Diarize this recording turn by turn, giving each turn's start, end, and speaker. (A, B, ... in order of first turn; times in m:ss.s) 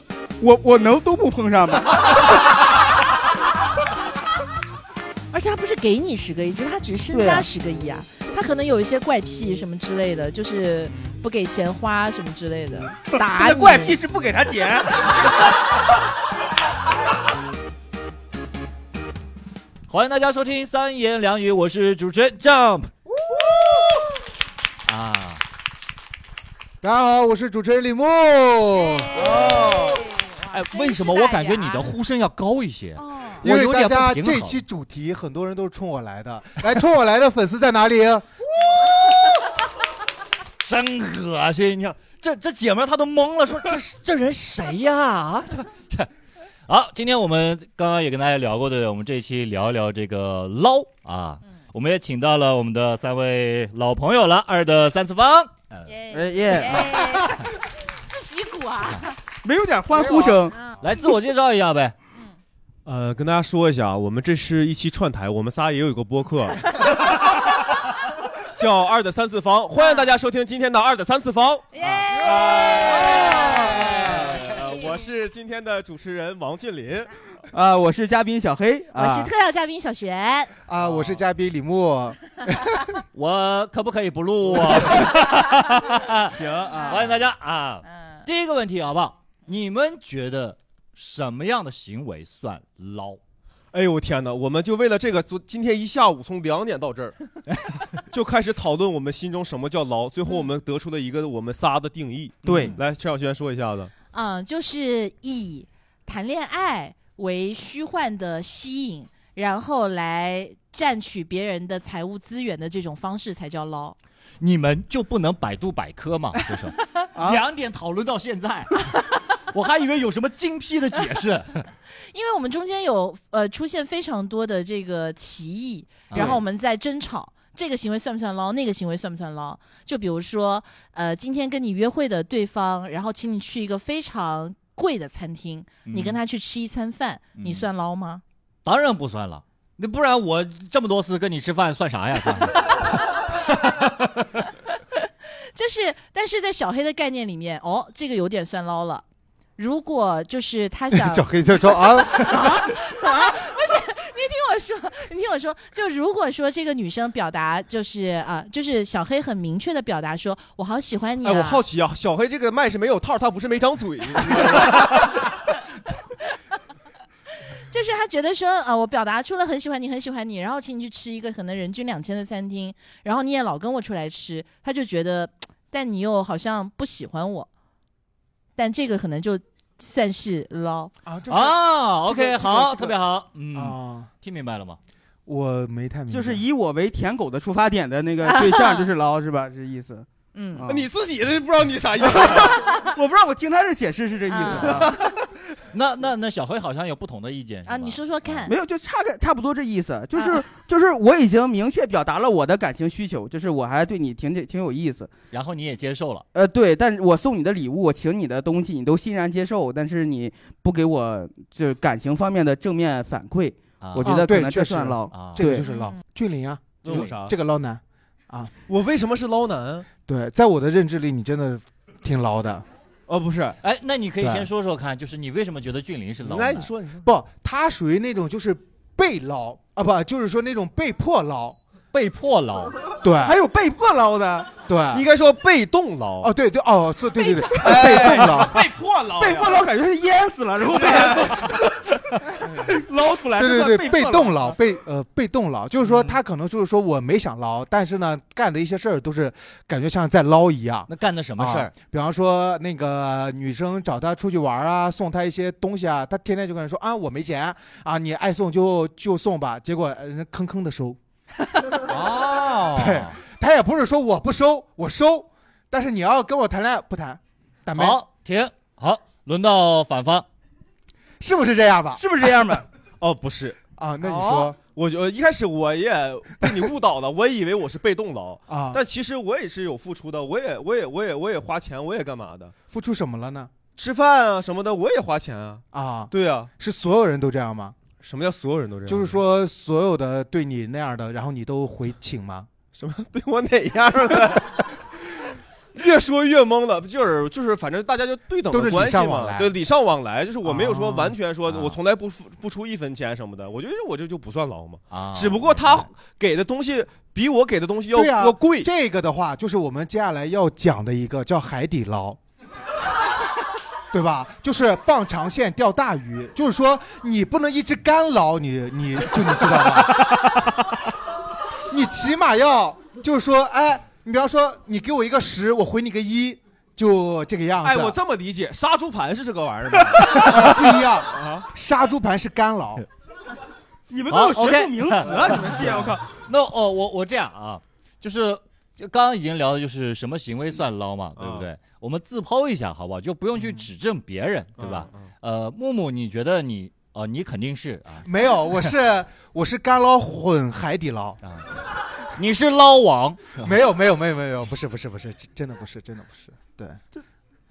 0:00.4-0:02.0 A
0:05.3-0:14.0 B
0:07.1-0:07.5 A
0:13.2-0:15.2 A
0:19.9-0:22.9 C
0:24.9-0:25.4 C
0:26.8-0:29.8 D
0:28.8-0:32.0 B
0:29.4-0:29.8 C
0:30.5-0:34.6 C
0:33.0-0:33.4 B
0:33.4-0:38.3 D
0:40.6-0:46.1 C
0:46.7-0:56.0 C
0:55.9-0:59.2 B
0:56.1-0:56.9 A
0:59.4-1:00.6 A
1:00.5-1:00.8 B
1:00.8-1:02.0 C
1:02.9-1:06.7 E
1:08.6-1:17.1 E
1:09.8-1:10.1 B
1:11.7-1:14.9 B
1:13.4-1:14.4 D
1:17.5-1:19.3 A
1:19.0-1:20.5 B
1:20.7-1:22.9 D
1:20.8-1:21.2 E
1:23.1-1:33.2 C
1:26.4-1:27.2 A
1:26.8-1:27.1 B
1:33.7-1:37.2 E
1:38.1-1:43.9 E
1:42.5-1:42.8 A
1:42.5-1:42.7 C
1:44.1-1:54.0 B
1:54.4-2:01.7 C
1:57.2-1:57.4 A
2:02.1-2:18.2 B
2:06.1-2:06.4 C
2:15.9-2:16.2 C
2:17.4-2:17.7 C
2:18.6-2:24.3 C
2:25.5-2:29.0 B
2:29.6-2:41.6 B
2:30.9-2:32.6 D
2:41.2-2:45.1 E
2:47.7-2:57.5 B
2:58.6-3:00.9 B
3:01.1-3:03.0 D
3:01.3-3:04.8 C
3:03.5-3:04.1 D
3:05.3-3:06.4 D
3:06.1-3:10.9 A
3:08.2-3:08.9 B
3:10.4-3:10.6 B
3:10.7-3:12.6 E
3:12.2-3:15.0 A
3:14.3-3:14.9 B
3:15.7-3:18.5 C
3:17.7-3:18.5 B
3:18.5-3:25.1 A
3:20.1-3:20.4 B
3:25.3-3:26.2 C
3:26.3-3:35.7 A
3:33.8-3:34.2 C
3:34.0-3:38.5 D
3:35.1-3:35.4 C
3:35.6-3:36.0 B
3:36.8-3:37.4 E
3:36.9-3:37.1 C
3:38.7-3:39.9 E
3:40.1-3:42.7 D
3:43.1-3:43.6 E
3:43.6-3:46.7 C
3:44.2-3:44.5 D
3:46.2-3:47.0 E
3:47.0-3:51.6 D
3:51.9-3:52.7 C
3:53.0-3:53.4 D
3:53.2-3:54.5 A
3:54.7-3:55.1 D
3:54.9-3:56.3 E
3:56.2-3:58.6 D
3:57.1-3:57.7 B
3:57.6-3:59.7 E
3:57.6-3:58.5 A
3:59.2-4:01.6 A
4:00.8-4:01.5 E
4:02.4-4:04.6 A
4:03.4-4:21.0 D
4:05.9-4:06.1 C
4:10.9-4:11.7 C
4:21.8-4:23.2 C
4:22.7-4:28.0 D
4:27.7-4:30.3 C
4:31.2-4:32.0 D
4:32.0-4:32.7 A
4:33.0-4:33.6 E
4:33.8-4:34.6 D
4:34.2-4:42.5 E
4:38.5-4:38.8 D
4:42.7-4:43.5 D
4:43.8-4:46.5 E
4:45.7-4:47.8 D
4:48.0-4:49.2 E
4:48.9-4:52.5 D
4:52.8-4:54.7 E
4:55.8-5:08.7 E
4:58.5-4:59.5 D
5:00.4-5:01.2 D
5:01.5-5:01.8 C
5:04.9-5:05.9 C
5:07.9-5:12.2 D
5:13.9-5:20.4 D
5:21.7-5:28.0 D
5:27.6-5:31.5 E
5:30.1-5:32.8 D
5:33.9-5:36.1 A
5:34.1-5:48.1 C
5:41.2-5:41.5 E
5:44.6-5:45.1 E
5:48.0-5:51.2 D
5:52.1-5:53.5 C
5:53.4-5:56.8 D